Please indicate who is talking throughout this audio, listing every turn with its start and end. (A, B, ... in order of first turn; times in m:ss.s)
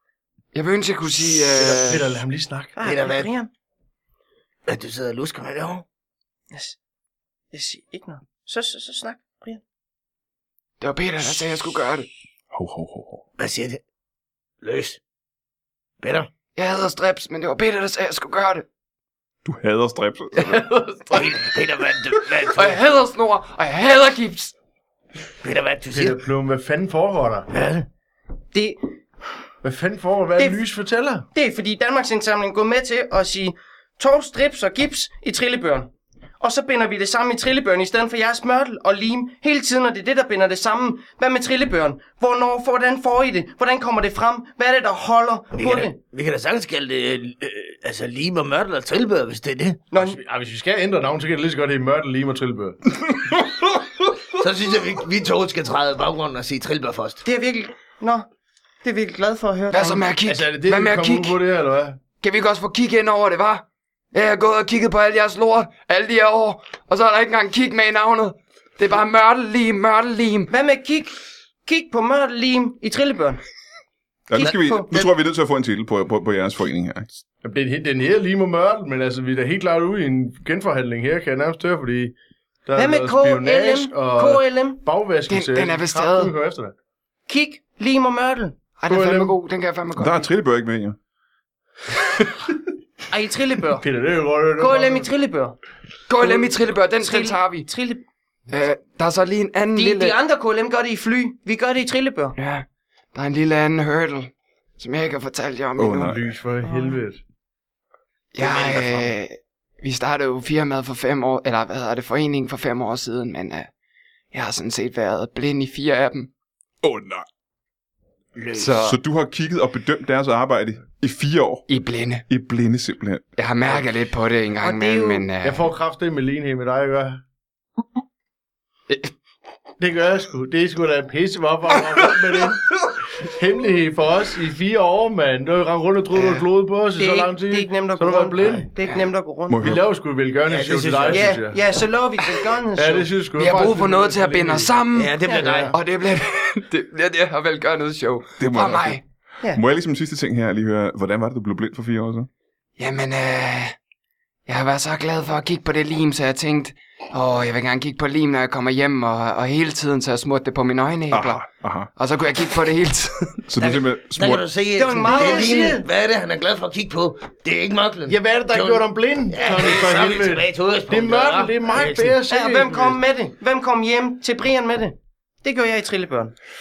0:00.5-0:02.2 A
0:01.6-0:02.8 B
0:02.8-0:03.5 C
0:02.8-0:03.3 D
0:04.6-0:05.8 D
0:06.5-0:06.8 C
0:07.5-0:09.6 C
0:10.8-0:12.1 A
0:12.5-0:13.3 E
0:13.4-0:13.8 D
0:14.6-0:15.0 D
0:16.0-0:16.3 D
0:16.6-0:18.6 A
0:19.4-0:20.7 E
0:20.5-0:21.3 A
0:21.1-0:22.8 D
0:22.4-0:24.5 A
0:25.4-0:26.2 D
0:25.9-0:27.5 B
0:27.5-0:27.9 D
0:28.5-0:28.8 C
0:29.6-0:31.3 B
0:31.3-0:35.9 C
0:36.4-0:46.0 C
0:45.5-0:49.8 D
0:49.9-0:50.2 C
0:50.0-0:52.8 B
0:54.4-0:57.2 D
0:57.2-0:58.3 C
0:58.8-1:00.0 C
0:59.7-1:01.4 A
1:00.3-1:02.1 B
1:02.2-1:10.5 A
1:10.5-1:11.2 C
1:11.7-1:13.4 C
1:14.3-1:17.1 E
1:14.3-1:15.1 C
1:17.4-1:26.7 B
1:22.8-1:24.8 C
1:25.3-1:26.4 A
1:27.3-1:28.6 C
1:28.8-1:30.3 A
1:28.9-1:29.4 B
1:30.0-1:31.0 E
1:33.1-1:33.9 C
1:33.8-1:35.1 B
1:34.6-1:35.6 C
1:36.1-1:37.7 A
1:36.2-1:38.0 C
1:38.5-1:40.2 A
1:39.8-1:42.4 C
1:42.4-1:46.2 A
1:45.8-1:46.2 E
1:46.1-1:47.2 B
1:46.6-1:47.0 C
1:48.3-1:53.7 A
1:48.4-1:49.1 D
1:54.3-1:56.3 A
1:56.8-1:57.3 E
1:58.4-1:58.8 D
1:58.6-1:59.0 A
1:58.8-2:01.7 E
2:01.7-2:02.2 A
2:02.3-2:03.4 E
2:03.4-2:05.7 A
2:04.6-2:05.3 C
2:05.4-2:07.2 B
2:09.8-2:18.7 B
2:17.0-2:19.6 C
2:19.5-2:19.9 E
2:19.6-2:21.6 B
2:20.5-2:21.4 D
2:21.1-2:23.1 C
2:22.8-2:24.8 B
2:23.3-2:29.0 A
2:25.0-2:25.8 D
2:25.3-2:25.6 C
2:25.4-2:25.8 B
2:28.4-2:32.3 E
2:32.8-2:33.8 A
2:34.5-2:41.4 A
2:41.1-2:41.9 E
2:42.0-2:43.5 A
2:43.4-2:44.5 E
2:43.6-2:52.2 D
2:44.8-2:45.8 C
2:48.1-2:53.0 B
2:52.3-2:56.4 C